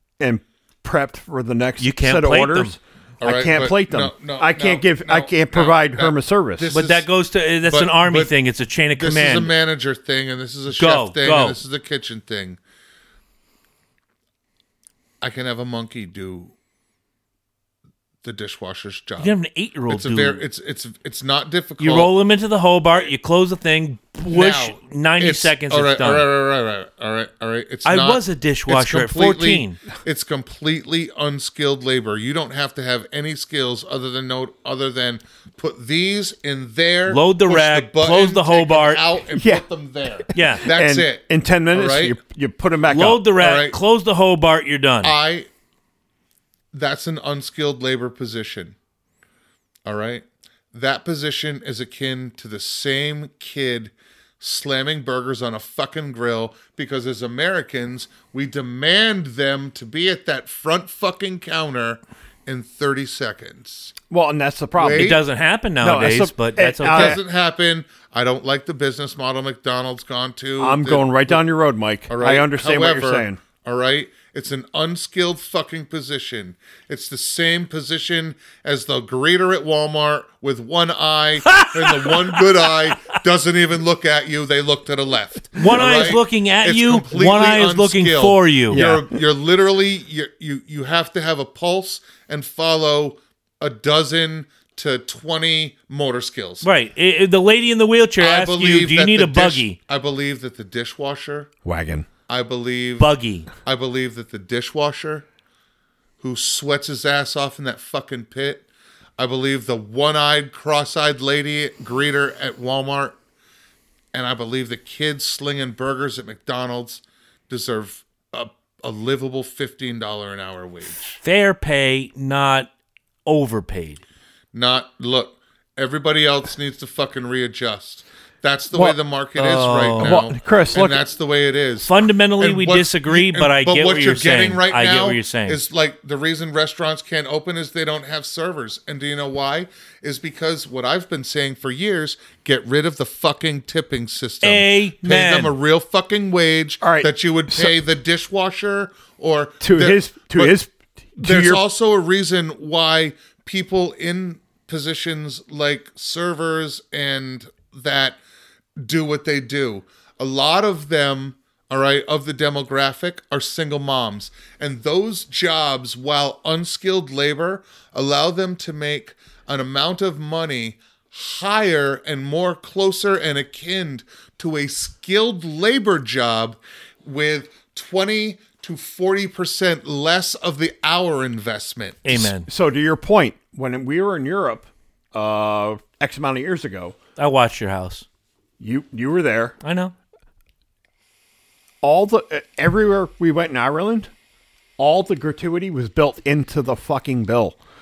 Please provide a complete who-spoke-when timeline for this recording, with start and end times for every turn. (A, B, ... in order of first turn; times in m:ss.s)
0:00.2-0:06.7 A
0:01.8-0:02.8 B
0:03.2-0:07.1 C
0:06.7-0:09.5 B
0:07.7-0:08.3 C
0:09.0-0:12.6 C
0:10.7-0:11.6 B
0:15.2-0:16.5 C
0:18.2-0:19.4 C
0:19.2-0:20.4 B
0:19.9-0:22.1 C
0:21.8-0:26.2 B
0:24.3-0:42.2 C
0:27.8-0:29.8 B
0:37.1-0:39.0 B
0:39.3-0:39.6 A
0:40.2-0:43.2 A
0:40.3-0:40.7 B
0:42.9-0:45.1 B
0:43.4-0:43.8 C
0:45.0-0:45.5 C
0:46.7-0:48.8 C
0:49.9-1:04.0 C
1:04.1-1:05.2 A
1:04.8-1:05.2 C
1:05.0-1:07.2 B
1:05.8-1:07.2 A
1:06.8-1:11.4 C
1:10.6-1:13.4 A
1:12.1-1:36.7 C
1:21.5-1:22.9 B
1:25.6-1:28.8 B
1:28.7-1:29.2 A
1:36.6-1:39.8 B
1:38.2-1:41.5 C
1:41.6-1:42.1 A
1:42.3-1:43.1 C
1:43.0-1:43.5 B
1:43.6-1:45.3 C
1:46.2-1:48.7 C
1:49.2-1:53.2 C
1:54.1-2:01.2 C
2:01.2-2:02.7 B
2:03.3-2:04.0 B
2:04.5-2:30.6 C
2:08.7-2:09.0 A
2:09.4-2:10.2 B
2:10.0-2:11.0 A
2:11.8-2:15.6 B
2:24.4-2:25.5 B
2:26.8-2:27.8 A
2:29.6-2:31.6 A
2:31.2-2:38.2 C
2:38.8-3:02.3 C
3:02.0-3:02.5 B
3:02.5-3:07.0 A
3:07.2-3:08.1 B
3:08.6-3:09.6 A
3:09.6-3:09.9 B
3:11.8-3:14.1 A
3:14.8-3:17.6 A